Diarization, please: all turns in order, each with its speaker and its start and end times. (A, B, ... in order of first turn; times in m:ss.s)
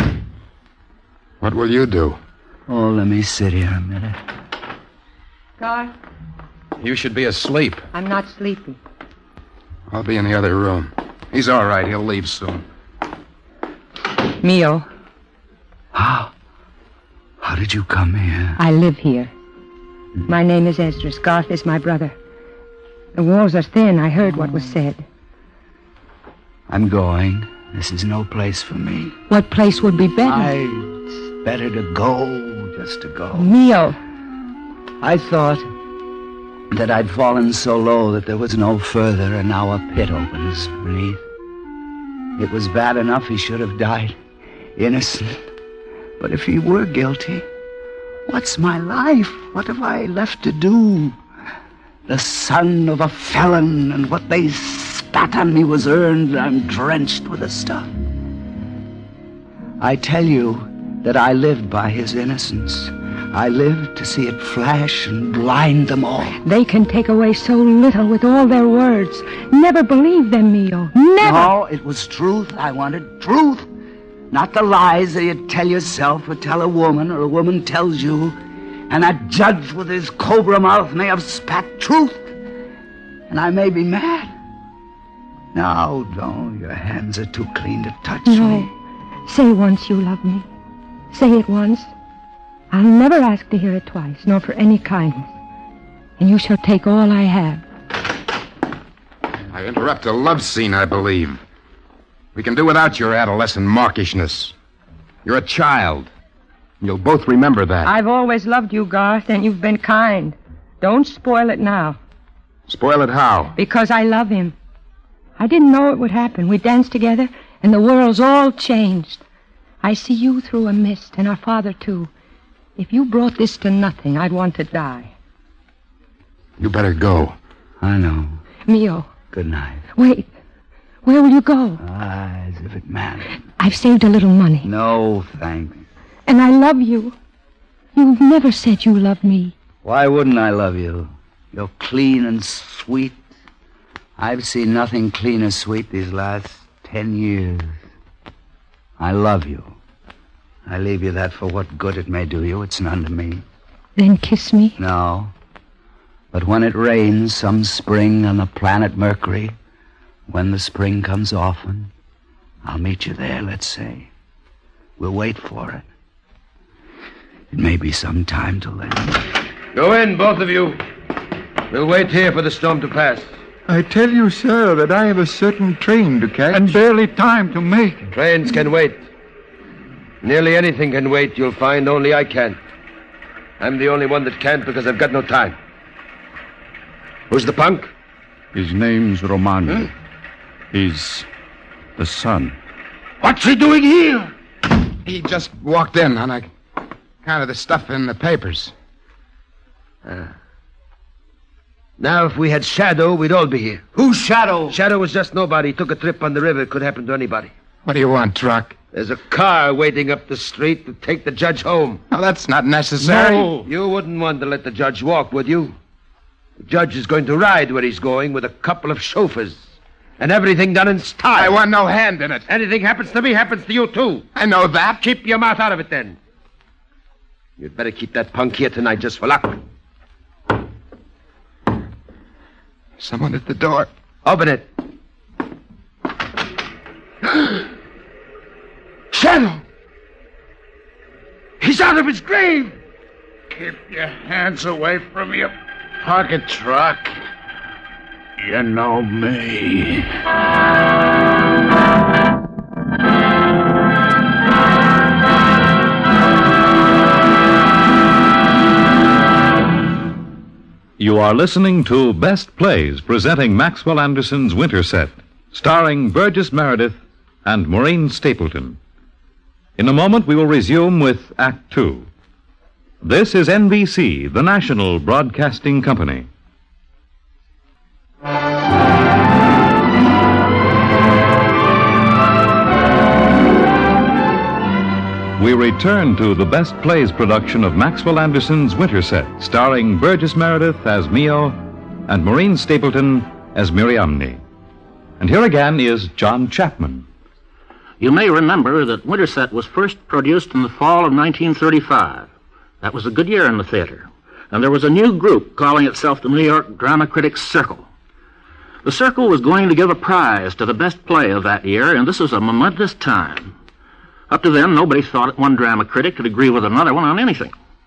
0:01.4-0:02.2 A
0:02.7-0:04.2 B
0:05.6-0:05.9 C
0:06.8-0:07.8 A
0:07.9-0:08.8 C
0:09.9-0:12.6 A
0:14.4-0:14.9 C
0:15.9-0:16.3 B
0:17.4-0:18.6 B
0:18.6-0:19.3 C
0:20.2-0:22.1 C
0:23.2-0:25.0 C
0:26.7-0:29.2 B
0:29.3-0:30.5 C
0:30.2-0:33.5 B
0:33.3-0:34.0 C
0:35.0-0:35.7 B
0:36.7-0:41.2 B
0:42.4-0:44.2 B
0:44.8-0:45.5 B
0:46.2-0:47.5 B
0:48.3-0:51.2 B
0:52.1-0:57.9 B
0:59.8-1:06.4 B
1:06.4-1:11.5 C
1:11.2-1:13.7 B
1:14.3-1:22.4 B
1:23.3-1:24.3 B
1:25.5-1:28.7 B
1:28.2-1:28.7 C
1:29.2-1:30.5 C
1:31.1-1:31.9 C
1:32.7-1:35.3 C
1:36.2-1:37.6 C
1:39.5-1:41.4 A
1:42.3-1:44.5 A
1:45.2-1:46.1 A
1:46.8-1:47.9 A
1:47.8-1:52.0 C
1:52.7-1:53.5 A
1:53.6-1:54.5 C
1:55.4-1:59.2 C
1:59.8-2:02.1 C
2:02.8-2:05.1 C
2:06.6-2:07.4 A
2:07.8-2:08.4 B
2:08.6-2:09.1 C
2:09.3-2:09.9 B
2:09.9-2:10.3 C
2:11.0-2:11.8 C
2:11.8-2:13.4 B
2:13.6-2:14.7 C
2:14.6-2:15.8 B
2:16.3-2:17.2 C
2:17.9-2:19.5 C
2:19.8-2:23.3 B
2:24.2-2:27.8 B
2:29.0-2:29.7 B
2:30.6-2:33.4 B
2:34.0-2:34.8 C
2:34.8-2:35.3 B
2:36.3-2:39.5 B
2:40.3-2:41.9 B
2:42.6-2:44.1 B
2:45.0-2:45.9 B
2:47.5-2:49.3 B
2:49.7-2:50.8 D
2:51.7-2:53.3 D
2:53.7-2:56.8 E
2:56.5-2:58.1 F
2:58.1-2:59.0 D
3:00.2-3:02.6 D
3:03.6-3:05.6 D
3:07.3-3:07.9 D
3:08.5-3:09.9 F
3:10.7-3:11.3 F
3:12.0-3:12.6 F
3:13.2-3:14.3 D
3:15.0-3:16.5 A
3:17.2-3:18.7 A
3:20.0-3:20.3 D
3:22.0-3:23.9 D
3:24.0-3:24.8 B
3:24.7-3:27.5 D
3:27.8-3:28.7 A
3:28.9-3:32.0 D
3:32.1-3:33.6 A
3:33.5-3:35.7 D
3:36.6-3:41.6 D
3:41.3-3:42.4 A
3:42.5-3:44.2 D
3:44.3-3:45.0 A
3:45.0-3:46.2 D
3:47.6-3:49.6 D
3:53.0-3:53.9 A
3:54.2-3:54.7 D
3:59.1-3:59.6 D
4:01.6-4:02.7 D
4:03.5-4:07.2 G
4:08.4-4:10.1 G
4:21.0-4:28.8 H
4:29.8-4:32.1 H
4:33.0-4:36.3 H
4:45.4-4:51.6 H
4:52.1-4:54.4 H
4:55.2-4:57.0 H
4:58.0-5:02.3 I
5:02.8-5:07.9 I
5:08.8-5:13.5 I
5:14.3-5:17.5 I